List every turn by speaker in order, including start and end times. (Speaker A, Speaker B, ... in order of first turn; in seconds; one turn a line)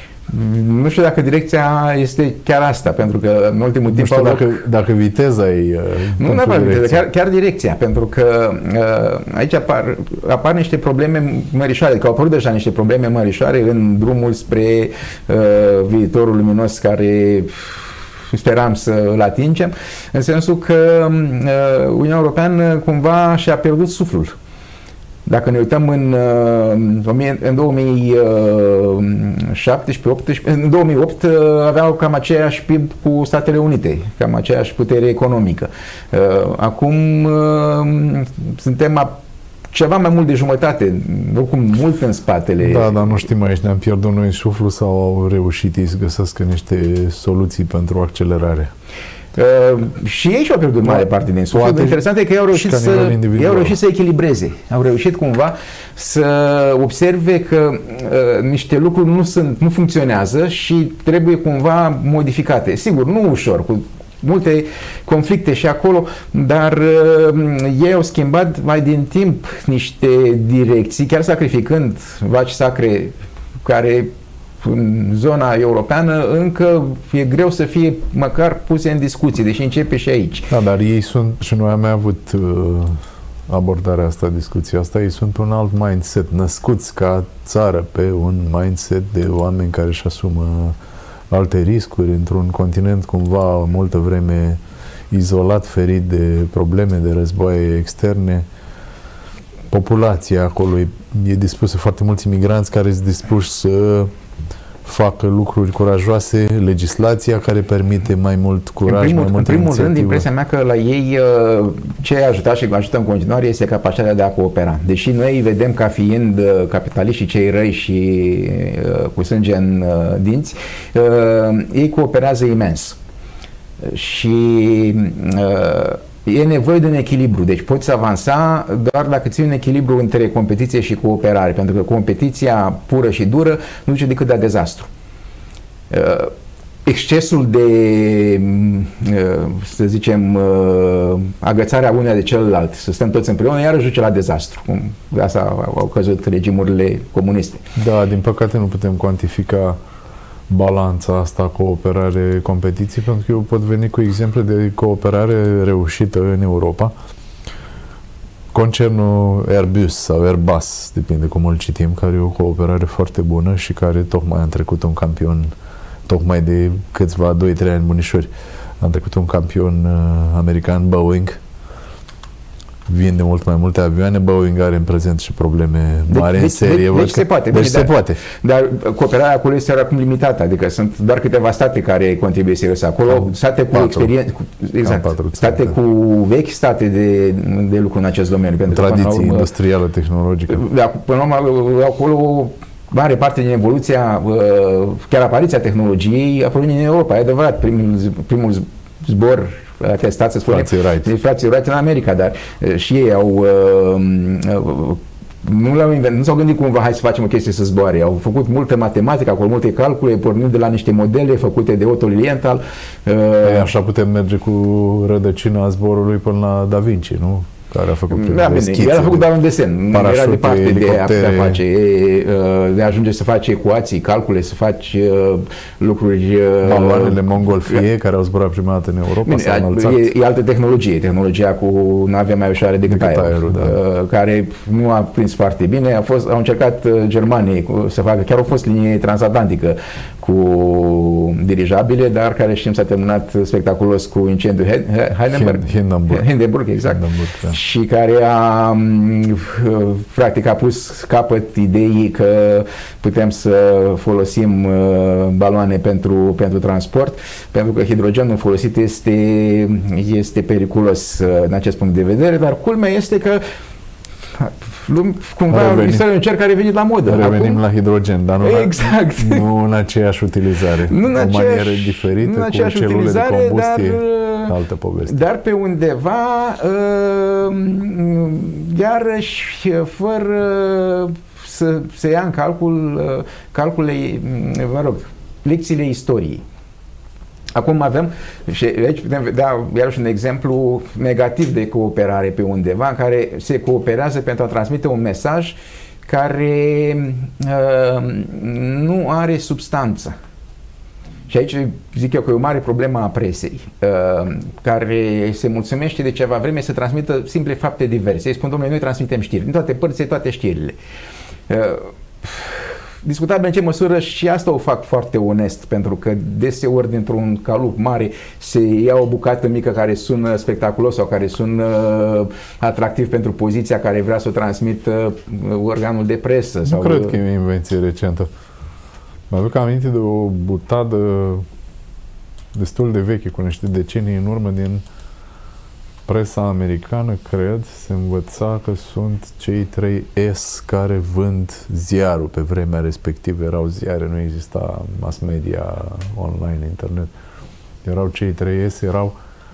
Speaker A: 0.3-4.6
Speaker B: 3.9-7.0
Speaker A: 6.2-24.4
Speaker A: 25.2-39.1
Speaker A: 39.7-43.2
Speaker B: 42.6-48.7
Speaker A: 49.4-74.1
Speaker B: 50.8-53.8
Speaker A: 74.6-80.5
Speaker B: 80.5-90.8
Speaker B: 91.3-98.5
Speaker B: 99.7-104.1
Speaker B: 104.8-110.2
Speaker A: 108.8-123.0
Speaker A: 123.8-134.9
Speaker A: 135.9-136.3
Speaker A: 136.8-147.7
Speaker B: 147.7-149.8
Speaker B: 150.5-156.9
Speaker B: 158.5-165.5
Speaker B: 166.1-168.3
Speaker B: 168.8-171.4
Speaker B: 172.9-178.2
Speaker A: 176.1-189.5
Speaker B: 183.1-184.1
Speaker B: 184.8-185.8
Speaker B: 188.7-190.6
Speaker A: 190.5-213.7
Speaker B: 200.5-201.1
Speaker B: 213.4-219.3
Speaker A: 218.1-227.8
Speaker B: 219.9-221.6
Speaker B: 226.6-230.1
Speaker A: 229.2-263.4
Speaker B: 232.9-233.8
Speaker B: 245.3-247.6
Speaker A: 264.4-267.6
Speaker B: 265.5-266.0
Speaker B: 267.1-275.2
Speaker A: 268.4-269.4
Speaker A: 270.9-274.5
Speaker A: 275.1-286.4
Speaker A: 287.5-300.1
Speaker A: 301.3-310.8
Speaker A: 311.5-327.2
Speaker B: 326.6-328.3
Speaker B: 329.3-331.4
Speaker B: 332.5-334.8
Speaker B: 336.1-347.1
Speaker B: 347.8-349.1